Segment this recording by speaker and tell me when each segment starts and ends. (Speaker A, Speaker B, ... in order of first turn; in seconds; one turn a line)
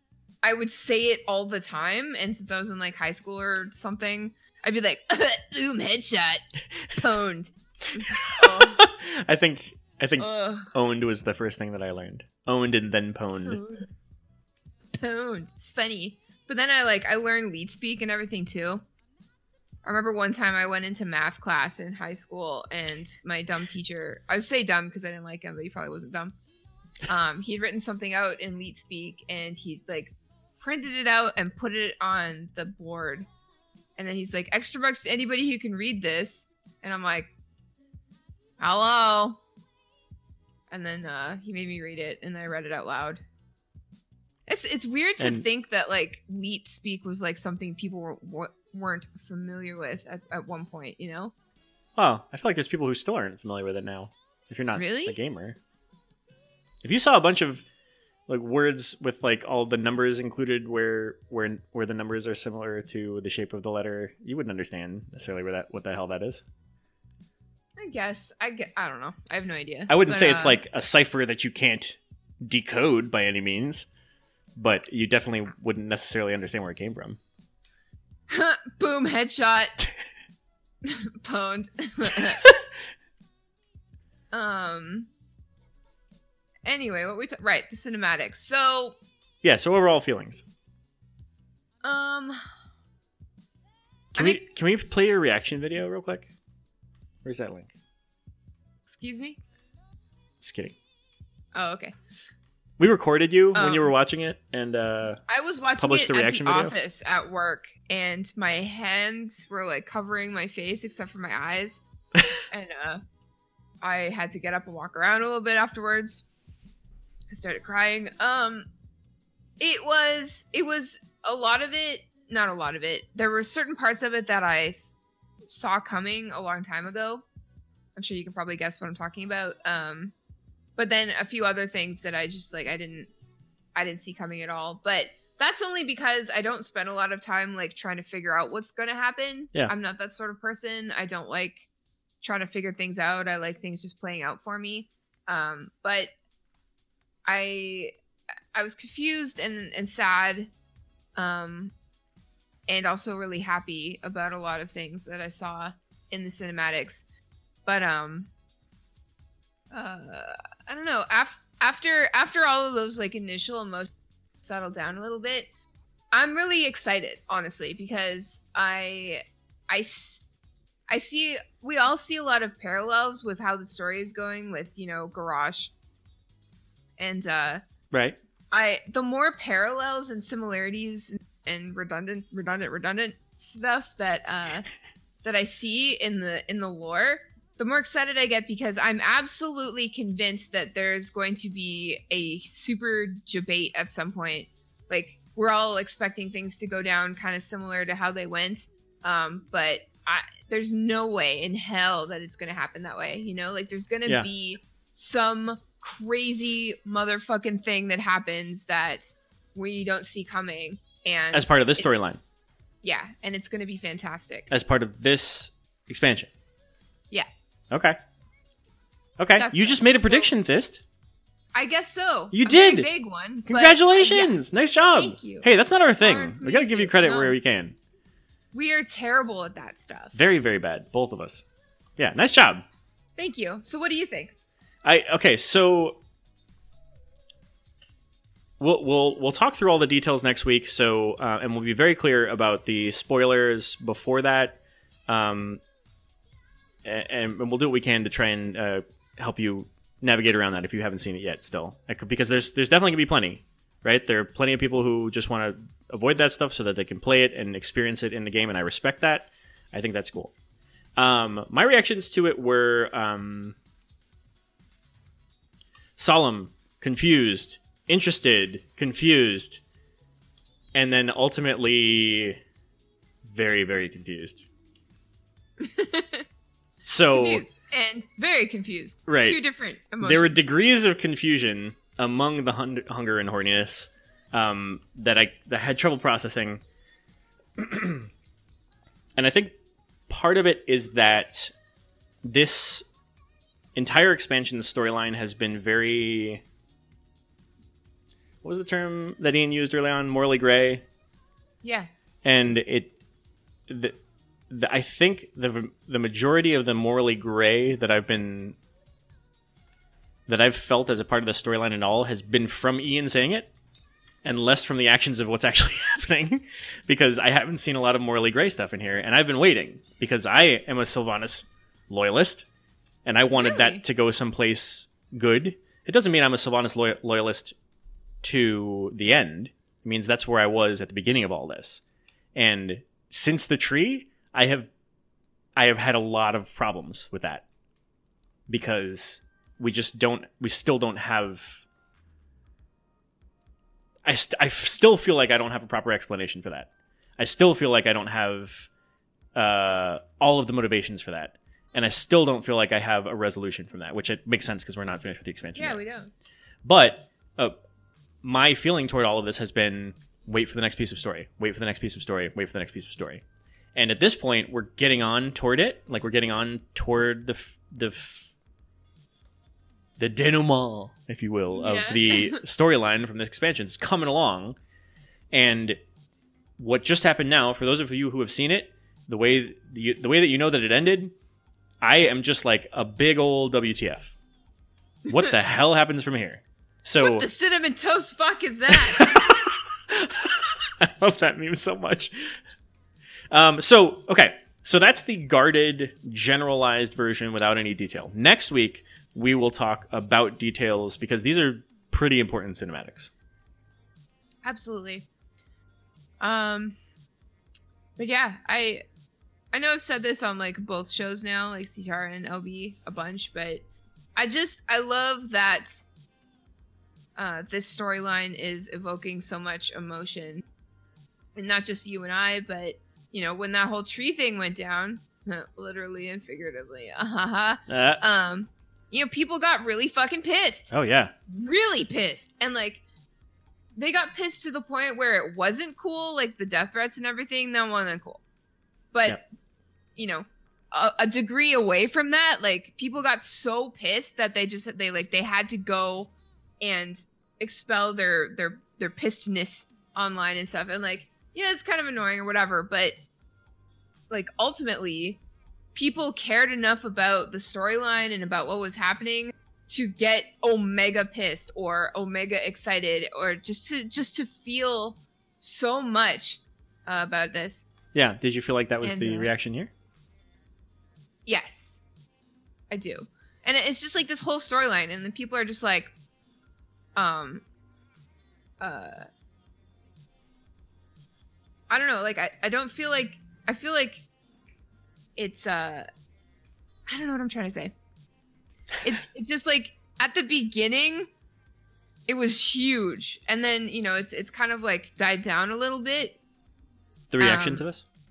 Speaker A: 0.4-8.8
Speaker B: 8.0-13.6
Speaker A: 10.2-10.7
Speaker A: 13.4-13.9
Speaker A: 14.9-18.8
Speaker A: 19.8-26.4
Speaker A: 27.1-33.3
Speaker A: 34.0-37.3
Speaker A: 38.6-39.4
Speaker A: 40.7-43.2
Speaker A: 44.5-51.3
Speaker B: 45.2-45.5
Speaker B: 52.0-55.6
Speaker A: 54.7-55.2
Speaker B: 56.8-57.6
Speaker B: 58.3-66.4
Speaker A: 67.8-70.6
Speaker B: 69.9-73.9
Speaker B: 74.6-77.2
Speaker A: 78.3-79.8
Speaker A: 80.8-82.4
Speaker A: 84.3-85.1
Speaker A: 86.6-89.0
Speaker B: 89.4-90.4
Speaker A: 91.8-92.5
Speaker B: 94.1-96.3
Speaker A: 94.2-94.5
Speaker B: 97.2-97.7
Speaker A: 98.9-99.4
Speaker B: 100.4-100.8
Speaker A: 101.5-102.0
Speaker B: 102.8-105.2
Speaker A: 103.5-103.9
Speaker A: 105.3-111.8
Speaker B: 105.8-106.8
Speaker A: 112.5-113.0
Speaker A: 113.8-116.2
Speaker A: 117.3-118.7
Speaker A: 119.6-124.8
Speaker A: 125.5-127.2
Speaker A: 128.0-130.1
Speaker A: 130.8-133.1
Speaker A: 133.8-141.7
Speaker A: 142.2-146.1
Speaker A: 147.2-147.9
Speaker A: 148.5-150.5
Speaker A: 151.2-151.7
Speaker A: 152.7-157.0
Speaker A: 157.6-158.3
Speaker A: 159.7-163.9
Speaker A: 164.4-165.5
Speaker A: 166.1-170.2
Speaker A: 170.9-175.7
Speaker A: 177.0-177.6
Speaker B: 177.9-178.2
Speaker A: 178.5-184.7
Speaker A: 185.2-211.9
Speaker B: 211.3-212.2
Speaker A: 212.8-214.5
Speaker B: 214.5-216.3
Speaker B: 217.7-218.0
Speaker B: 219.2-220.8
Speaker A: 219.4-220.3
Speaker A: 221.5-224.4
Speaker B: 222.3-222.9
Speaker B: 223.4-227.8
Speaker A: 224.9-225.5
Speaker A: 226.0-227.3
Speaker A: 228.5-230.1
Speaker B: 230.1-231.4
Speaker B: 232.0-232.6
Speaker A: 233.2-234.3
Speaker B: 234.8-236.0
Speaker B: 238.6-245.6
Speaker B: 246.8-260.3
Speaker B: 260.9-263.6
Speaker B: 266.0-269.6
Speaker B: 270.7-272.4
Speaker B: 273.2-274.4
Speaker A: 275.6-276.3
Speaker B: 276.9-277.4
Speaker A: 277.1-280.4
Speaker B: 279.1-279.4
Speaker B: 280.0-286.6
Speaker B: 287.6-288.1
Speaker B: 289.2-289.6
Speaker B: 290.1-291.5
Speaker B: 292.2-292.9
Speaker B: 293.7-296.4
Speaker B: 298.4-300.9
Speaker A: 301.6-301.9
Speaker B: 302.2-302.9
Speaker B: 303.7-304.0
Speaker B: 304.5-308.6
Speaker B: 310.3-313.5
Speaker B: 314.2-322.4
Speaker B: 323.1-327.6
Speaker A: 323.3-323.8
Speaker B: 328.2-331.8
Speaker B: 332.4-334.7
Speaker B: 335.6-337.4
Speaker B: 338.5-341.6
Speaker B: 344.1-348.7
Speaker B: 349.4-355.8
Speaker A: 355.6-356.1
Speaker B: 356.6-357.6
Speaker B: 358.2-363.2
Speaker B: 363.7-368.3
Speaker B: 370.0-374.6
Speaker A: 371.5-372.4
Speaker B: 375.3-375.8
Speaker B: 376.6-381.1
Speaker B: 381.8-384.1
Speaker A: 385.1-385.3
Speaker B: 385.1-387.3
Speaker A: 387.0-389.1
Speaker B: 388.7-392.4
Speaker B: 393.3-403.1
Speaker A: 404.4-405.1
Speaker A: 406.2-406.8
Speaker A: 408.0-408.9
Speaker A: 409.5-413.6
Speaker A: 414.1-415.9
Speaker A: 417.2-420.4
Speaker A: 421.4-430.7
Speaker B: 427.7-428.0
Speaker B: 430.7-431.1
Speaker A: 431.3-432.8
Speaker A: 433.7-438.2
Speaker A: 438.9-439.2
Speaker A: 439.9-453.0
Speaker A: 454.1-455.2
Speaker A: 455.7-467.6
Speaker B: 467.9-469.7
Speaker A: 468.8-469.3
Speaker A: 471.3-471.8
Speaker A: 472.7-475.9
Speaker A: 476.9-477.4
Speaker A: 478.6-479.1
Speaker A: 481.7-484.1
Speaker A: 485.2-485.9
Speaker A: 486.9-487.7
Speaker A: 488.8-491.1
Speaker A: 492.1-496.2
Speaker B: 497.1-497.8
Speaker A: 497.2-497.6